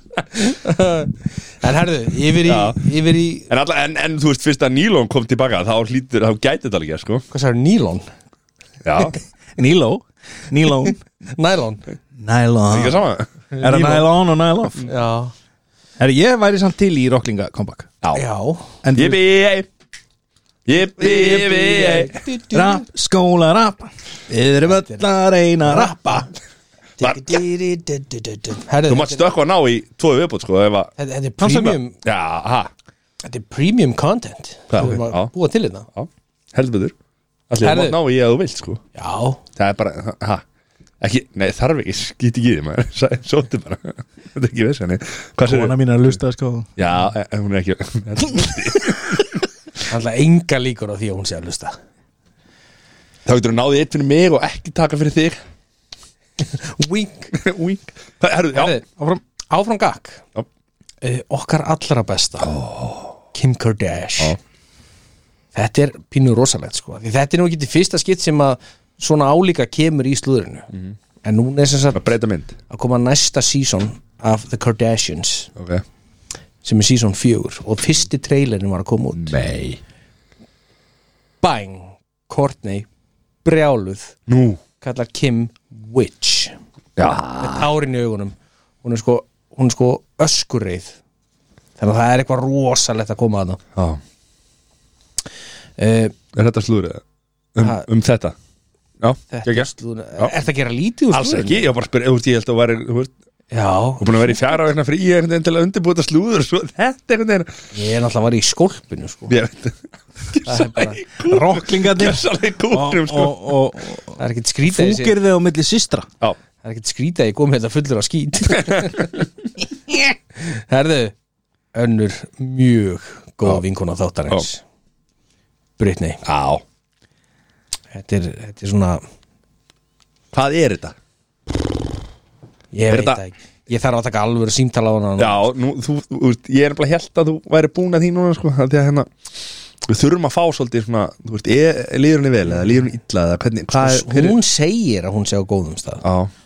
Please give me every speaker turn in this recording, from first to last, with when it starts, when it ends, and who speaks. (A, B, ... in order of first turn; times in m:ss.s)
0:00.3-0:03.5 A
0:02.4-0:02.9 B
0:03.5-0:07.2 B
0:07.3-0:08.1 A
0:08.8-0:09.2 B
0:09.6-0:11.0 C
0:11.3-0:11.8 A
0:12.2-0:13.0 C
0:12.7-0:13.3 B
0:13.5-0:14.0 A
0:13.6-0:14.9 C
0:14.8-0:15.3 A
0:16.0-0:17.9 C
0:18.1-0:18.8 A
0:18.8-0:19.2 C
0:18.9-0:19.7 B
0:20.7-0:22.2 B
0:21.0-0:22.8 A
0:22.5-0:26.3 C
0:24.7-0:25.0 A
0:25.6-0:26.3 A
0:27.0-0:29.2 A
0:27.0-0:27.4 B
0:28.9-0:30.9 B
0:31.0-0:32.0 A
0:31.4-0:31.8 C
0:32.0-0:32.7 B
0:33.2-0:35.9 A
0:34.7-0:35.3 B
0:35.9-0:36.9 B
0:37.5-0:38.8 B
0:37.6-0:38.0 A
0:38.9-0:39.4 A
0:39.6-0:40.4 B
0:41.0-0:45.8 B
0:45.4-0:46.7 C
0:46.8-0:49.4 B
0:49.9-0:51.8 A
0:53.2-0:55.4 B
0:56.4-0:57.3 A
0:57.3-0:58.8 B
0:58.5-1:00.2 A
1:01.0-1:02.5 A
1:02.4-1:03.2 B
1:03.3-1:04.4 A
1:05.5-1:10.7 A
1:11.2-1:12.0 A
1:11.9-1:12.6 B
1:12.7-1:15.5 A
1:15.6-1:15.8 B
1:16.6-1:19.4 A
1:19.2-1:19.8 B
1:21.4-1:22.9 A
1:23.4-1:24.2 A
1:24.3-1:24.6 B
1:24.8-1:26.6 A
1:27.0-1:27.7 B
1:27.4-1:31.0 A
1:31.8-1:33.6 A
1:35.8-1:36.1 A
1:36.3-1:37.0 B
1:37.5-1:38.3 B
1:37.6-1:37.8 A
1:39.0-1:40.3 B
1:39.3-1:41.7 A
1:41.1-1:43.1 B
1:43.5-1:44.5 A
1:44.0-1:47.5 B
1:47.7-1:49.4 A
1:49.3-1:49.8 B
1:50.3-1:53.5 B
1:50.4-1:51.0 A
1:51.2-1:56.1 C
1:54.2-1:55.2 A
1:56.6-1:59.1 A
1:58.6-1:58.9 B
2:00.3-2:01.1 A
2:01.7-2:04.6 A
2:05.8-2:06.2 A
2:06.2-2:06.6 B
2:07.9-2:09.0 A
2:10.3-2:10.9 B
2:12.7-2:15.4 A
2:12.9-2:13.2 B
2:15.2-2:19.1 B
2:19.8-2:24.4 B
2:23.7-2:26.0 A
2:26.0-2:26.3 B